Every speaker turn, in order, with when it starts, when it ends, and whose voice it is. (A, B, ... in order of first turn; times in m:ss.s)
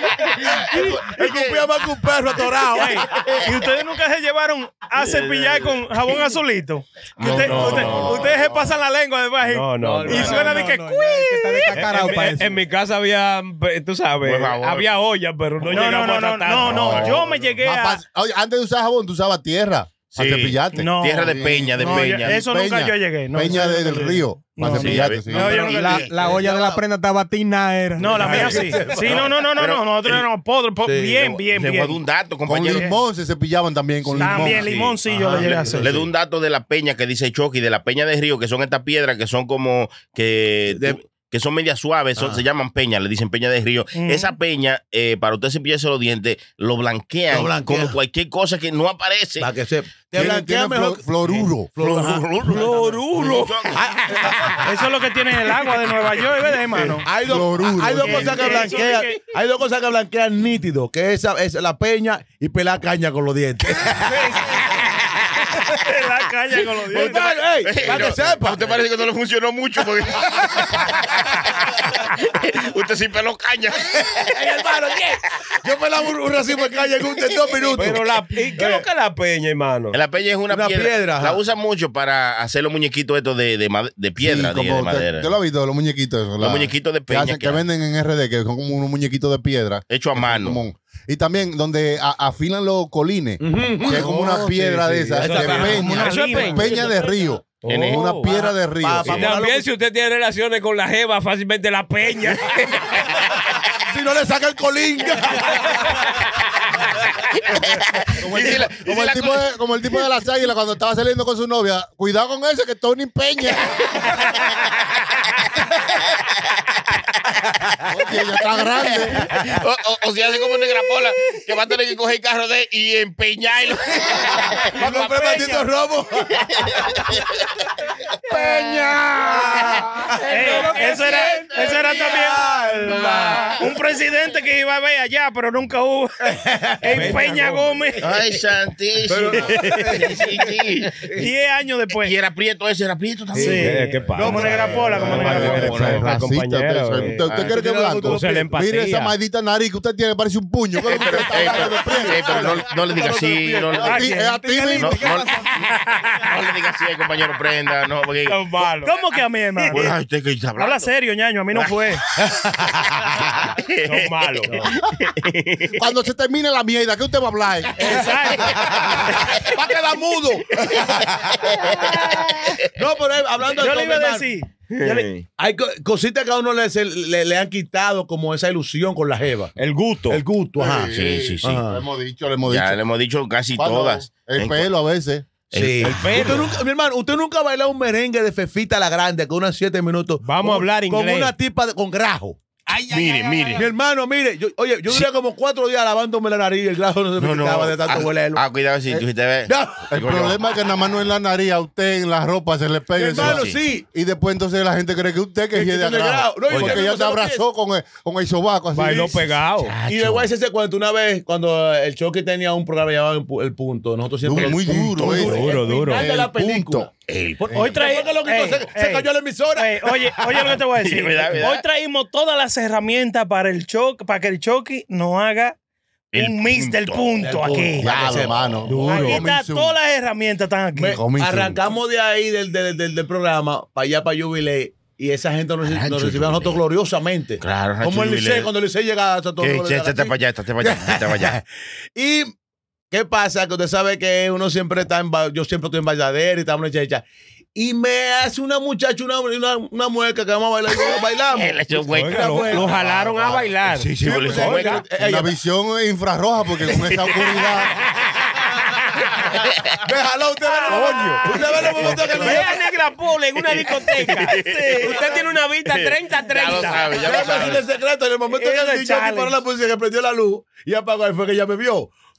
0:00.2-0:03.5 A
0:01.0-0:01.6 B
0:02.7-0:12.0 C
0:05.0-0:06.2 B
0:07.2-0:08.5 B
0:07.2-0:08.8 D
0:07.6-0:07.9 E
0:09.4-0:10.5 E
0:09.8-0:12.6 F
0:10.1-0:10.5 B
0:11.7-0:17.2 E
0:14.2-0:14.9 B
0:15.7-0:18.0 C
0:16.6-0:17.3 B
0:16.6-0:25.6 D
0:20.2-0:22.4 B
0:20.7-0:26.4 C
0:24.6-0:25.3 B
0:25.3-0:26.8 A
0:25.3-0:28.9 F
0:28.0-0:32.0 C
0:28.0-0:29.3 A
0:28.8-0:30.3 B
0:30.8-0:31.2 A
0:31.2-0:32.9 B
0:32.5-0:34.7 D
0:32.6-0:32.9 C
0:34.1-0:34.4 A
0:34.2-0:35.9 C
0:34.2-0:49.5 B
0:35.1-0:36.0 A
0:40.7-0:41.0 A
0:42.2-0:42.4 A
0:44.0-0:44.4 C
0:47.3-0:48.0 A
0:49.4-0:52.8 A
0:50.1-0:51.7 D
0:51.8-0:54.6 B
0:52.4-0:53.6 E
0:53.7-0:54.7 A
0:54.6-0:57.1 C
0:57.0-1:04.4 A
0:57.2-0:58.7 D
0:58.0-0:59.3 C
1:05.8-1:07.6 C
1:06.8-1:14.2 B
1:06.9-1:08.8 A
1:14.1-1:18.9 A
1:17.7-1:20.0 E
1:19.9-1:25.3 B
1:20.5-1:21.4 A
1:24.2-1:39.3 D
1:26.4-1:27.6 B
1:29.9-1:30.6 B
1:33.4-1:36.0 A
1:35.2-1:36.7 E
1:35.5-1:37.0 C
1:37.6-1:38.3 E
1:37.6-1:38.2 B
1:38.2-1:39.7 A
1:39.0-1:43.1 E
1:43.8-1:46.0 A
1:48.0-1:49.5 B
1:48.2-1:53.8 D
1:57.9-1:59.3 D
1:58.0-2:05.4 B
2:04.5-2:07.0 A
2:04.8-2:05.7 C
2:08.3-2:09.8 D
2:08.3-2:12.1 B
2:09.4-2:10.2 A
2:10.3-2:16.2 C
2:10.4-2:11.8 F
2:11.9-2:13.7 A
2:12.9-2:13.6 B
2:16.2-2:17.2 A
2:16.8-2:18.3 C
2:16.9-2:17.8 E
2:18.0-2:21.3 B
2:19.1-2:20.4 A
2:19.4-2:20.2 E
2:21.0-2:21.2 A
2:21.1-2:22.1 C
2:21.9-2:26.1 B
2:23.3-2:25.8 A
2:23.4-2:25.9 C
2:23.4-2:27.3 E
2:25.0-2:32.7 D
2:27.2-2:27.6 B
2:27.4-2:28.5 F
2:28.0-2:29.1 E
2:30.8-2:34.0 B
2:31.0-2:33.8 A
2:33.7-2:35.1 D
2:33.8-2:34.4 C
2:34.0-2:35.7 F
2:34.8-2:38.5 B
2:38.3-2:39.0 E
2:38.8-2:40.0 C
2:39.1-2:40.9 B
2:40.6-2:42.0 C
2:41.5-2:45.8 B
2:42.3-2:43.2 A
2:43.8-2:44.7 E
2:45.7-2:48.1 D
2:47.8-2:48.9 C
2:48.4-2:51.7 A
2:50.6-2:52.5 B
2:52.7-2:54.3 A
2:53.5-2:55.1 C
2:54.8-2:55.3 B
2:55.4-2:59.5 A
2:59.6-3:00.2 E
3:00.1-3:00.9 A
3:00.6-3:02.8 D
3:00.9-3:01.5 B
3:01.4-3:01.8 A
3:02.5-3:04.7 B
3:03.6-3:05.3 D
3:05.5-3:06.6 B
3:05.5-3:12.4 A
3:05.8-3:06.5 E
3:10.2-3:11.3 E
3:12.7-3:13.7 E
3:12.9-3:13.7 B
3:13.6-3:18.4 A
3:17.2-3:20.4 B
3:19.5-3:19.9 A
3:19.9-3:29.2 D
3:23.0-3:23.8 A
3:23.2-3:23.6 B
3:25.5-3:27.4 A
3:26.5-3:26.8 B
3:28.7-3:29.7 E
3:28.8-3:29.1 A
3:29.7-3:30.2 B
3:29.8-3:40.1 A
3:34.2-3:36.9 D
3:34.9-3:35.4 B
3:35.0-3:36.0 E
3:37.1-3:37.8 B
3:37.5-3:37.8 D
3:37.5-3:45.6 C
3:40.2-3:41.6 B
3:46.1-3:47.3 B
3:46.2-3:48.1 C
3:47.2-3:48.7 A
3:47.8-3:49.8 D
3:48.7-3:49.2 E
3:48.9-3:51.0 C
3:50.8-4:01.4 A
3:50.9-3:51.6 D
3:55.6-3:56.6 B
3:57.4-3:58.5 B
3:59.4-4:01.4 B
4:02.0-4:02.3 A
4:02.9-4:13.3 A
4:11.3-4:14.8 B
4:11.9-4:14.8 E
4:14.0-4:15.3 A
4:14.2-4:17.7 D
4:16.8-4:17.8 B
4:19.2-4:19.7 B
4:19.8-4:22.6 A
4:20.4-4:22.4 C
4:20.7-4:21.2 E
4:22.0-4:27.6 E
4:23.6-4:27.6 B
4:26.9-4:31.9 A
4:28.3-4:29.4 C